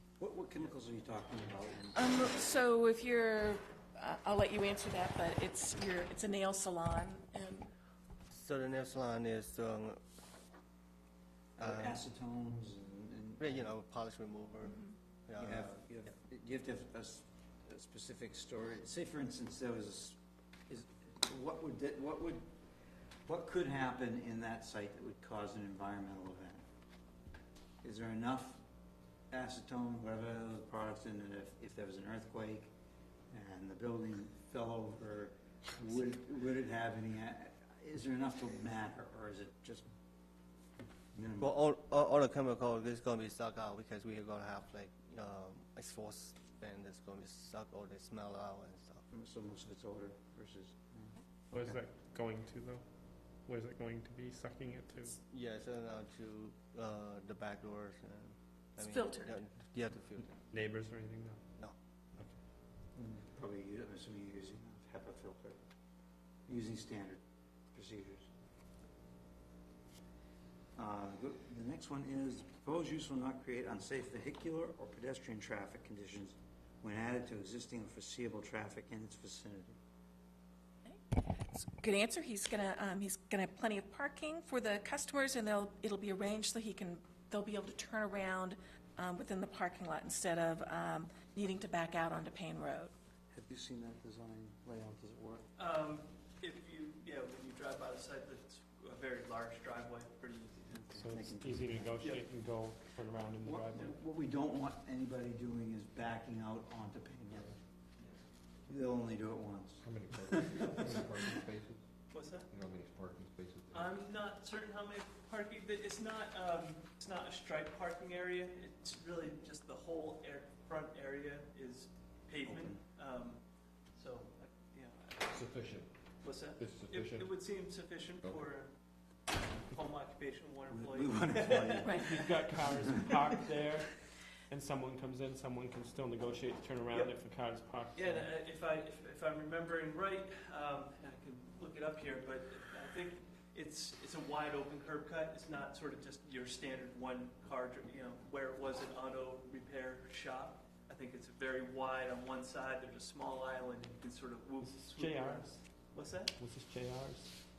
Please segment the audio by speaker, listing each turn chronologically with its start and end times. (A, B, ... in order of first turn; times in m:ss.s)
0:00.2-0:02.1 A
0:02.0-0:07.7 B
0:08.3-0:10.0 C
0:11.6-0:13.7 A
0:11.6-0:12.0 C
0:13.4-0:15.8 C
0:15.4-0:22.4 A
0:23.3-0:26.6 A
0:27.8-0:28.6 A
0:29.3-0:32.7 A
0:33.3-0:39.9 A
0:41.1-0:41.5 A
0:41.4-0:49.0 C
0:49.1-0:51.8 A
0:51.5-0:52.8 D
0:53.4-0:55.2 D
0:55.2-1:00.4 C
0:58.8-0:59.3 B
1:00.5-1:01.4 D
1:03.0-1:05.6 A
1:06.5-1:07.2 A
1:07.7-1:08.3 A
1:10.8-1:19.8 A
1:20.8-1:32.9 B
1:33.3-1:35.5 A
1:35.6-1:40.8 E
1:40.7-1:42.0 A
1:40.9-1:43.9 D
1:42.0-1:42.3 E
1:43.4-1:47.6 A
1:48.7-1:50.8 A
1:49.8-1:51.8 F
1:50.4-1:51.3 E
1:52.1-1:52.5 E
1:52.5-1:53.9 F
1:53.7-2:03.4 E
2:02.4-2:02.8 A
2:04.0-2:05.4 E
2:05.3-2:05.9 F
2:06.2-2:08.7 E
2:06.6-2:07.2 F
2:09.7-2:12.5 E
2:10.7-2:13.2 A
2:11.8-2:12.1 B
2:12.0-2:14.0 D
2:14.5-2:18.3 D
2:16.9-2:17.2 E
2:18.0-2:36.3 E
2:34.6-2:35.6 D
2:36.4-2:37.4 D